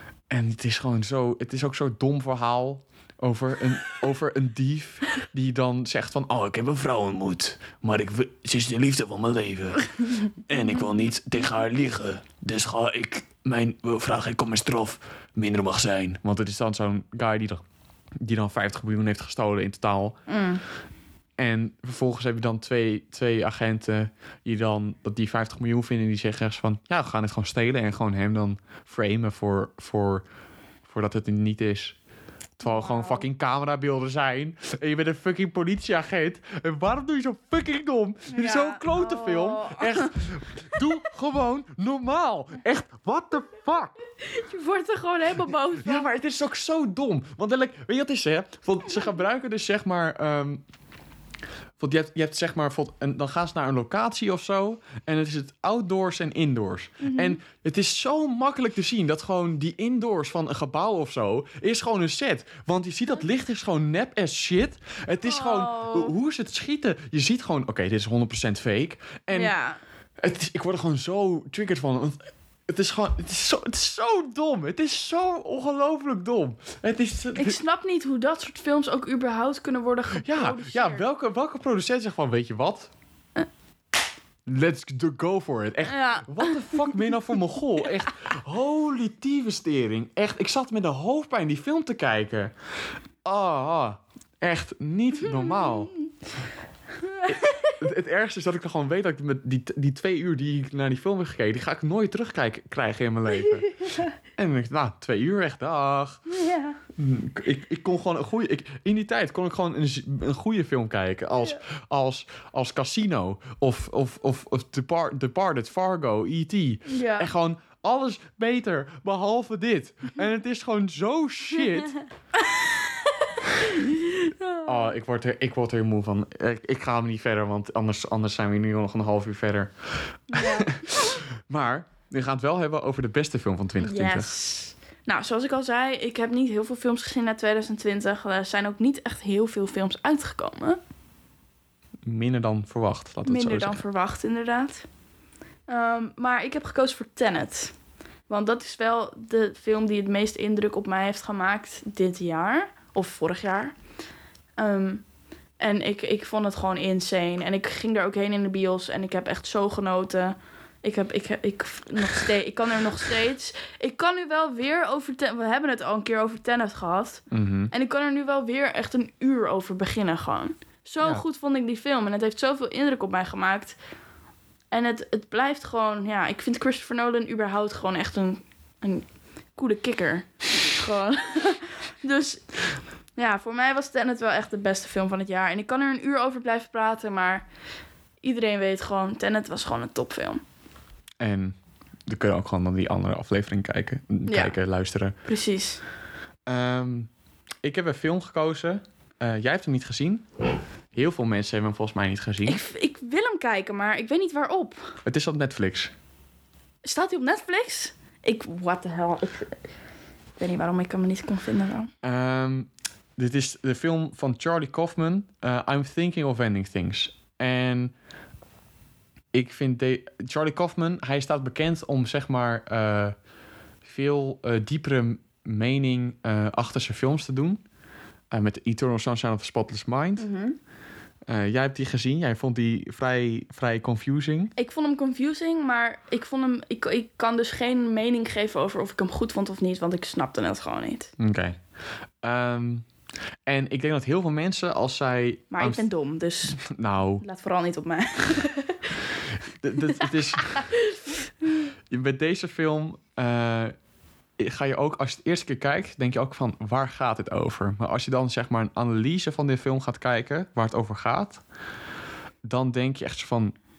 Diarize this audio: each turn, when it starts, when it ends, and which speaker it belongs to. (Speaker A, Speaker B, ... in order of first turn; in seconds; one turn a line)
Speaker A: 0.3-17.6
Speaker A: 18.2-20.2
Speaker B: 20.3-20.6
Speaker A: 21.4-30.2
Speaker A: 30.9-31.9
Speaker A: 32.6-43.9
Speaker B: 32.6-33.2
Speaker B: 38.3-40.1
Speaker B: 44.2-46.1
Speaker A: 45.8-50.6
Speaker A: 51.8-69.5
Speaker B: 57.0-57.4
Speaker B: 65.2-66.1
Speaker B: 69.3-69.8
Speaker A: 70.2-77.6
Speaker B: 77.3-81.0
Speaker A: 80.2-82.9
Speaker A: 84.5-92.5
Speaker B: 85.9-86.9
Speaker A: 93.2-96.0
Speaker B: 97.0-97.8
Speaker A: 97.3-103.7
Speaker B: 103.7-104.1
Speaker A: 104.2-106.2
Speaker B: 106.3-106.8
Speaker A: 107.0-122.0
Speaker B: 116.9-117.3
Speaker B: 124.1-124.9
Speaker A: 124.6-134.3
Speaker B: 130.3-130.7
Speaker B: 133.8-140.8
Speaker A: 142.0-143.8
Speaker B: 143.2-144.8
Speaker B: 145.7-147.7
Speaker B: 148.3-153.8
Speaker B: 154.6-155.1
Speaker B: 155.6-173.8
Speaker A: 167.3-167.7
Speaker B: 174.7-182.4
Speaker B: 183.2-187.4
Speaker B: 188.2-190.4
Speaker A: 191.2-195.1
Speaker B: 194.3-194.5
Speaker B: 195.2-195.8
Speaker A: 196.5-197.1
Speaker A: 197.6-200.3
Speaker A: 200.9-202.6
Speaker B: 202.4-204.9
Speaker A: 205.1-205.9
Speaker B: 206.8-209.6
Speaker B: 210.4-211.9
Speaker A: 212.0-217.9
Speaker A: 219.3-223.2
Speaker A: 223.8-227.6
Speaker A: 228.3-230.3
Speaker B: 230.2-230.6
Speaker A: 231.3-234.5
Speaker B: 234.6-241.1
Speaker A: 241.2-241.6
Speaker A: 242.2-242.8
Speaker A: 243.4-245.8
Speaker B: 245.5-246.6
Speaker A: 246.5-247.2
Speaker B: 247.2-249.0
Speaker A: 249.6-250.7
Speaker B: 250.0-251.2
Speaker A: 251.9-253.7
Speaker A: 254.4-261.4
Speaker A: 262.4-263.6